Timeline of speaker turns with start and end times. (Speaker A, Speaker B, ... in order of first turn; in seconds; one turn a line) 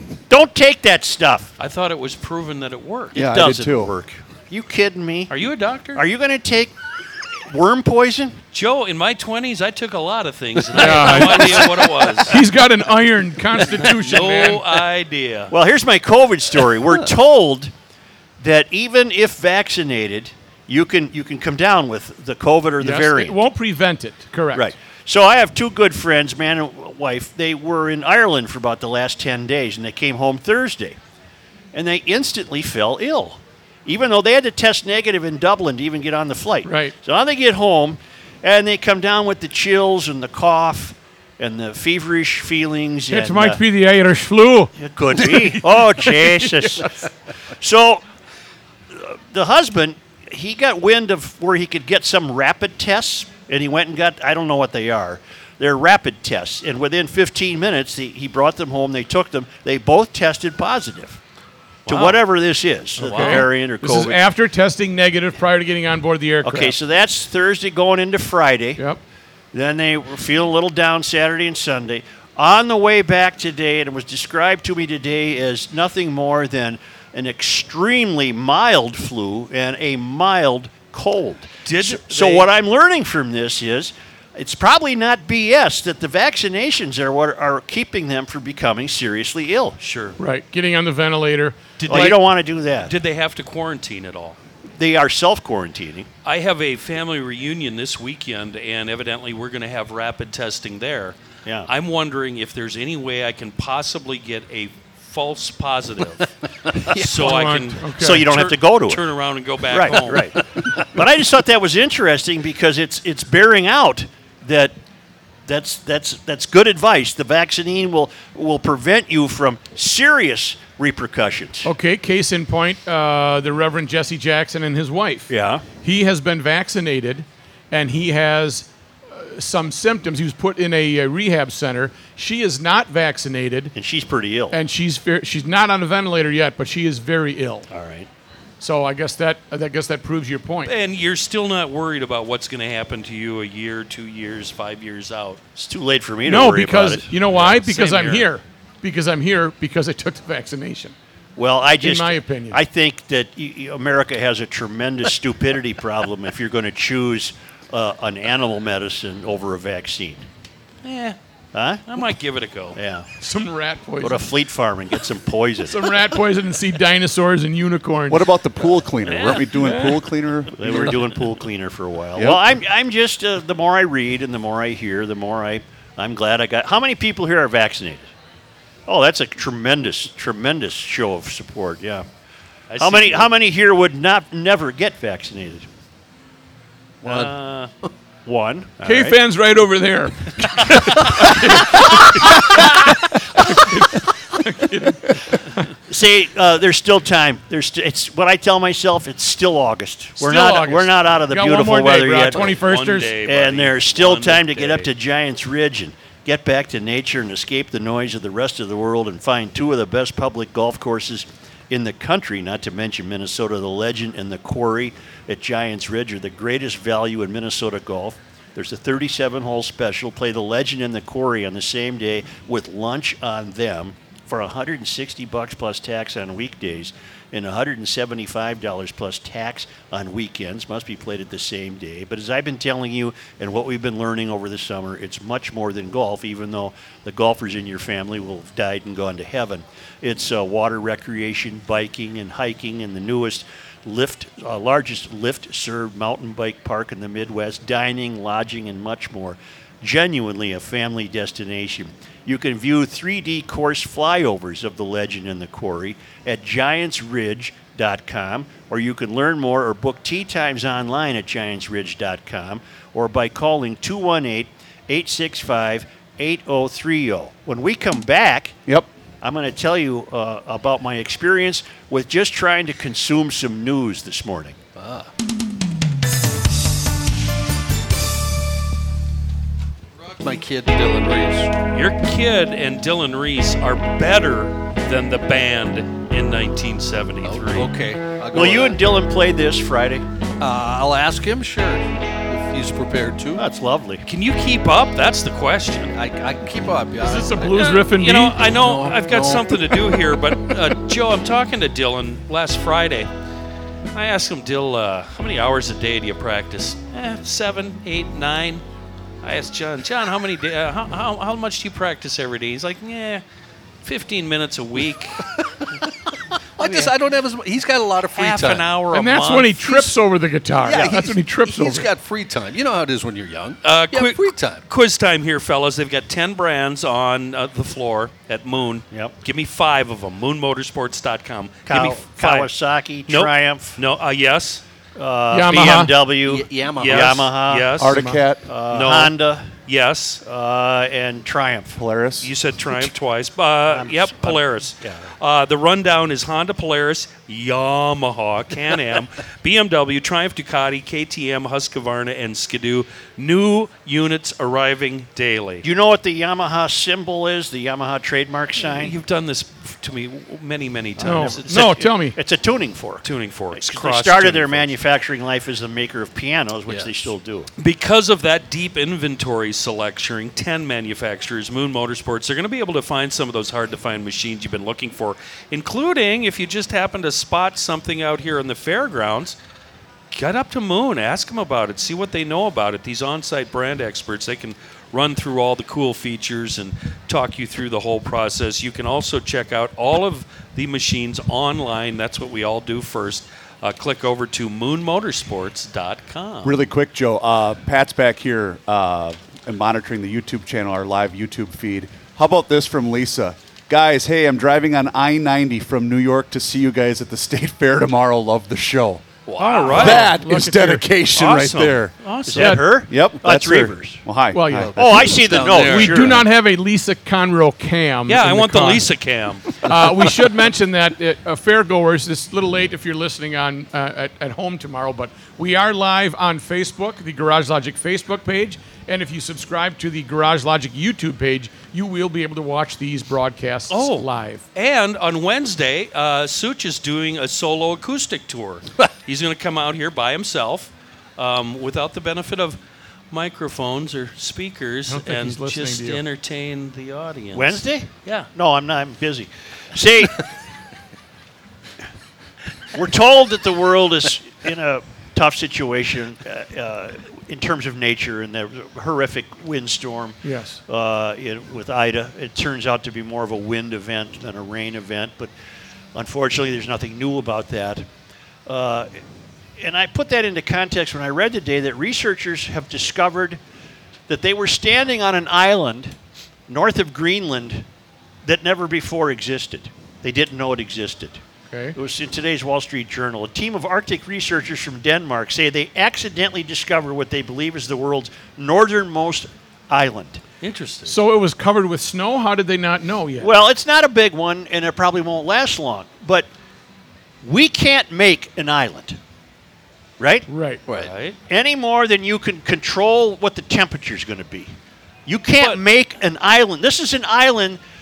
Speaker A: 0.3-1.5
Speaker B: 1.6-3.2
Speaker C: 3.1-3.9
Speaker A: 3.1-5.4
Speaker B: 5.3-6.0
Speaker A: 5.9-6.7
Speaker A: 7.5-8.4
Speaker B: 8.5-12.4
Speaker D: 10.7-14.7
Speaker B: 13.7-15.5
Speaker A: 15.5-17.7
Speaker A: 18.4-23.4
Speaker D: 22.8-24.7
Speaker A: 24.5-31.0
Speaker A: 31.7-43.6
Speaker D: 36.6-36.9
Speaker D: 43.1-46.9
Speaker A: 44.8-46.9
Speaker A: 47.6-48.0
Speaker A: 48.9-61.2
Speaker B: 61.9-62.2
Speaker A: 61.9-64.2
Speaker B: 63.0-63.5
Speaker D: 63.0-66.7
Speaker A: 66.4-68.8
Speaker A: 69.5-89.8
Speaker B: 81.6-82.5
Speaker B: 89.8-90.2
Speaker D: 90.2-92.2
Speaker B: 91.8-92.1
Speaker A: 91.8-92.9
Speaker B: 92.9-94.4
Speaker A: 94.8-96.1
Speaker B: 96.2-106.3
Speaker B: 106.9-110.4
Speaker D: 107.0-108.3
Speaker A: 107.9-109.0
Speaker A: 109.7-114.7
Speaker A: 115.5-121.7
Speaker D: 121.6-133.7
Speaker A: 125.3-125.6
Speaker A: 133.7-134.6
Speaker D: 134.5-137.6
Speaker A: 137.7-138.1
Speaker D: 138.6-140.7
Speaker B: 140.6-145.4
Speaker A: 145.6-147.1
Speaker D: 146.2-150.9
Speaker B: 147.3-148.3
Speaker A: 151.3-160.2
Speaker D: 151.8-152.6
Speaker B: 160.8-161.2
Speaker A: 161.5-161.8
Speaker B: 161.8-162.8
Speaker A: 162.7-163.1
Speaker D: 163.2-164.3
Speaker A: 164.0-165.9
Speaker D: 165.7-168.3
Speaker C: 168.1-171.1
Speaker B: 169.0-169.5
Speaker D: 169.6-170.0
Speaker A: 170.5-178.1
Speaker C: 172.2-172.5
Speaker A: 178.9-182.1
Speaker B: 182.7-183.3
Speaker A: 182.8-185.7
Speaker B: 187.0-187.7
Speaker E: 187.0-187.3
Speaker A: 188.2-189.2
Speaker D: 188.8-195.7
Speaker A: 195.9-202.6
Speaker D: 200.2-203.2
Speaker B: 202.3-204.9
Speaker A: 203.2-268.6
Speaker A: 269.2-274.6
Speaker E: 274.8-275.1
Speaker E: 280.0-281.5
Speaker B: 281.7-287.7
Speaker E: 287.2-288.8
Speaker A: 288.3-290.0
Speaker E: 290.4-293.4
Speaker A: 293.4-294.0
Speaker B: 294.0-295.9
Speaker E: 295.9-297.8
Speaker D: 297.0-298.4
Speaker B: 297.4-303.1
Speaker E: 298.5-299.9
Speaker B: 303.9-308.6
Speaker B: 309.2-313.2
Speaker B: 313.8-315.2
Speaker E: 316.6-318.7
Speaker B: 316.6-316.9
Speaker B: 318.1-319.9
Speaker D: 318.9-321.9
Speaker E: 320.6-324.6
Speaker B: 323.6-332.5
Speaker A: 331.7-333.8
Speaker B: 333.1-334.6
Speaker A: 334.9-337.8
Speaker D: 335.3-336.0
Speaker E: 336.2-337.3
Speaker B: 336.7-338.0
Speaker C: 337.8-338.5
Speaker D: 337.9-338.2
Speaker A: 338.4-339.5
Speaker B: 338.7-340.2
Speaker A: 340.2-341.9
Speaker C: 341.8-342.3
Speaker B: 342.2-355.6
Speaker A: 343.7-345.1
Speaker A: 355.6-358.9
Speaker B: 358.6-361.6
Speaker A: 361.0-367.5
Speaker D: 361.0-362.2
Speaker B: 363.0-364.8
Speaker E: 366.7-366.9
Speaker B: 367.6-379.4
Speaker B: 380.1-396.7
Speaker C: 396.4-409.2
Speaker B: 409.3-410.1
Speaker D: 409.5-410.9
Speaker C: 409.8-411.9
Speaker B: 411.1-412.6
Speaker A: 412.3-414.0
Speaker D: 412.3-412.8
Speaker C: 412.8-415.5
Speaker D: 414.3-418.9
Speaker A: 414.7-416.3
Speaker E: 415.2-416.2
Speaker B: 418.1-419.7
Speaker D: 419.5-434.4
Speaker B: 433.7-442.6
Speaker B: 443.1-448.3
Speaker D: 444.9-446.0
Speaker A: 447.3-450.2
Speaker A: 452.7-465.3
Speaker D: 460.2-460.6
Speaker A: 465.9-467.9
Speaker A: 468.4-468.9
Speaker A: 469.6-473.4
Speaker A: 474.1-475.9
Speaker A: 476.5-477.6
Speaker A: 478.2-481.2
Speaker D: 481.5-481.8
Speaker A: 481.7-490.2
Speaker B: 490.4-491.0
Speaker D: 490.9-493.3
Speaker A: 493.2-496.3
Speaker A: 497.2-499.0
Speaker A: 500.0-500.3
Speaker D: 500.3-500.6
Speaker B: 500.7-501.2
Speaker A: 501.3-504.5
Speaker A: 505.1-507.6